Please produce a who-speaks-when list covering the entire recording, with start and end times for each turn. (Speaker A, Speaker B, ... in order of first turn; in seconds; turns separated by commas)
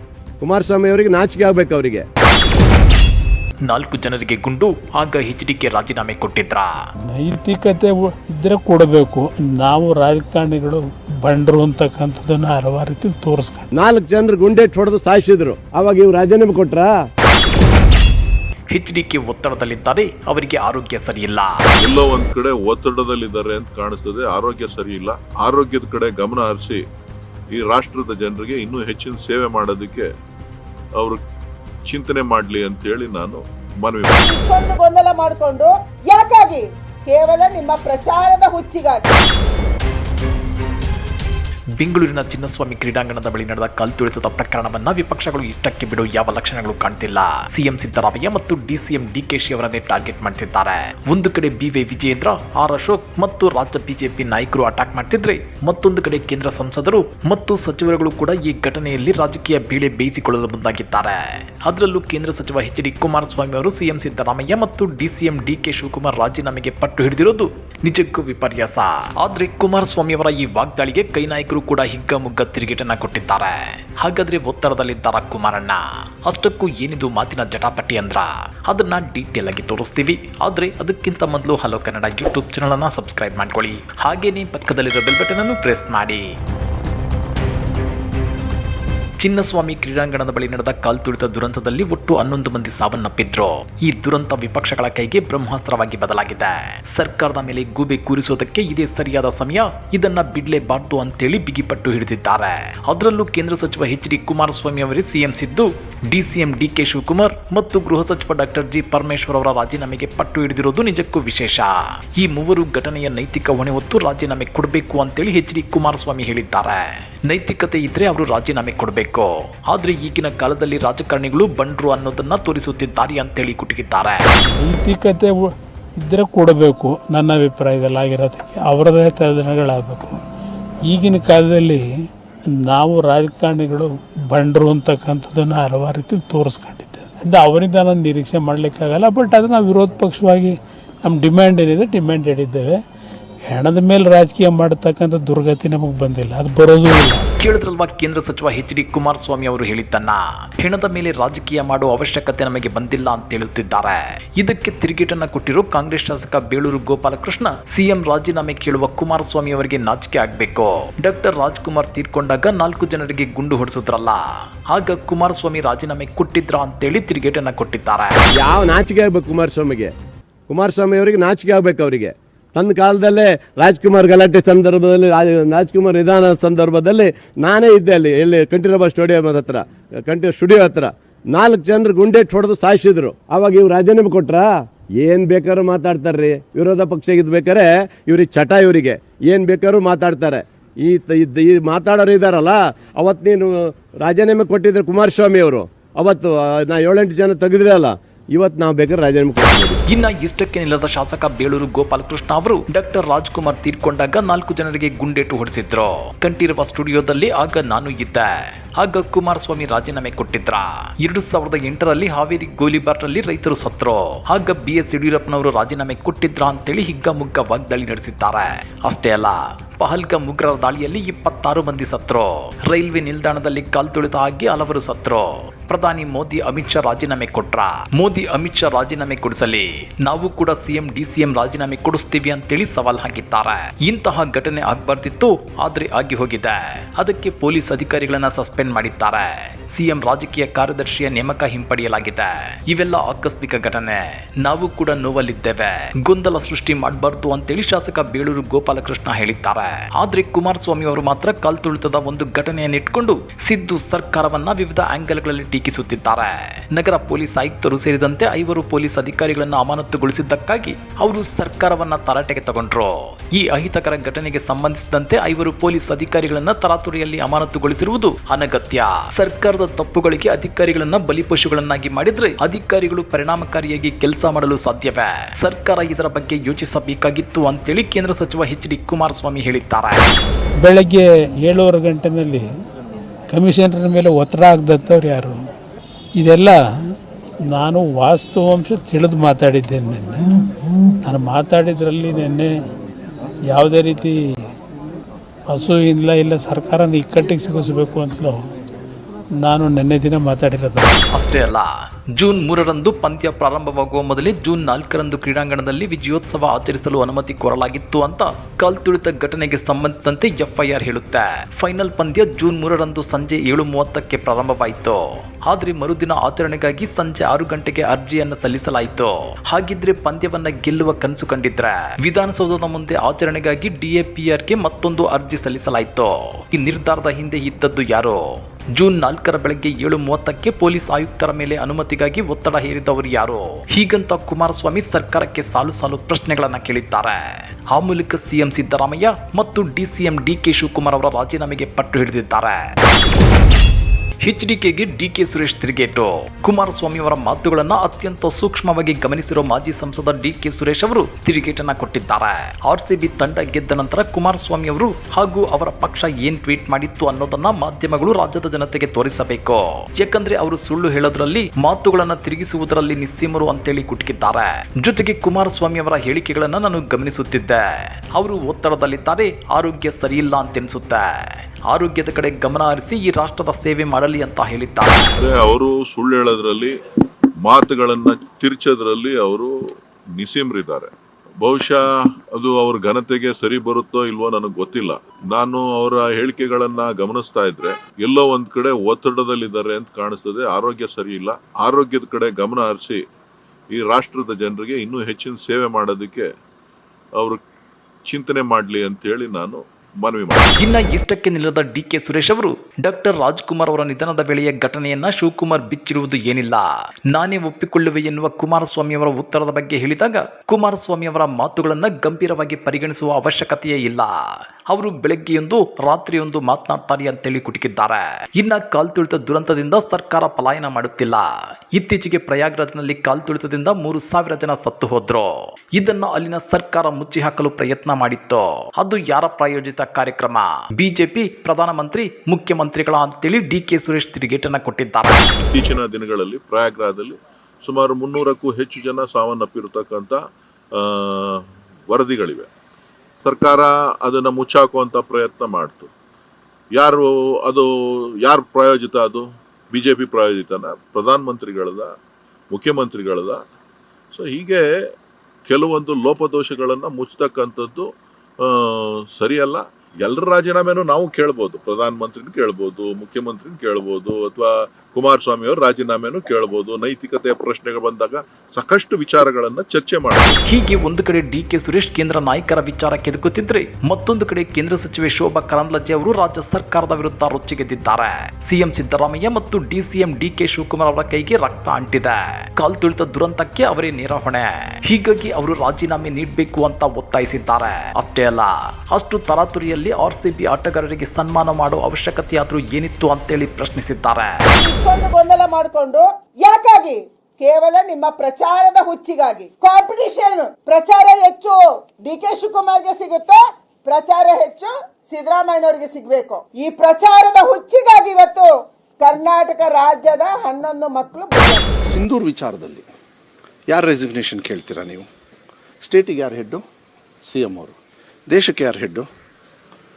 Speaker A: 0.4-2.0, Speaker B: 3.7-6.7, Speaker C: 7.1-13.7, Speaker A: 13.7-16.9, Speaker B: 18.7-21.6, Speaker D: 21.8-26.8, Speaker D: 27.5-30.1, Speaker D: 31.8-34.2, Speaker E: 34.2-39.1, Speaker B: 41.8-86.2, Speaker B: 89.2-124.3, Speaker C: 124.5-130.2, Speaker C: 130.8-131.8, Speaker C: 132.5-142.7, Speaker C: 143.5-147.2, Speaker B: 147.4-168.2, Speaker A: 168.4-169.9, Speaker A: 170.5-184.5, Speaker A: 185.0-199.8, Speaker B: 199.9-280.1, Speaker C: 280.6-282.4, Speaker C: 283.3-285.4, Speaker C: 286.2-286.6, Speaker C: 287.5-290.2, Speaker C: 291.0-292.5, Speaker C: 293.5-294.1, Speaker C: 295.5-298.4, Speaker C: 299.4-301.0, Speaker B: 301.1-328.2, Speaker B: 328.7-342.7, Speaker B: 344.2-371.1, Speaker B: 371.7-375.1, Speaker D: 375.2-376.7, Speaker D: 377.4-379.5, Speaker D: 380.1-380.9, Speaker D: 381.4-381.8, Speaker D: 382.3-393.0, Speaker D: 393.7-396.3, Speaker D: 398.1-400.6, Speaker B: 400.6-435.3, Speaker D: 435.4-440.2, Speaker D: 440.7-442.5, Speaker D: 443.2-445.9, Speaker D: 446.7-451.9, Speaker D: 452.5-453.4, Speaker D: 454.1-454.6, Speaker D: 455.5-457.9, Speaker D: 458.4-470.4, Speaker B: 470.5-494.4, Speaker E: 494.5-511.7, Speaker F: 511.8-512.9, Speaker F: 513.7-515.1, Speaker F: 515.8-516.6, Speaker F: 517.3-517.8, Speaker F: 518.3-519.1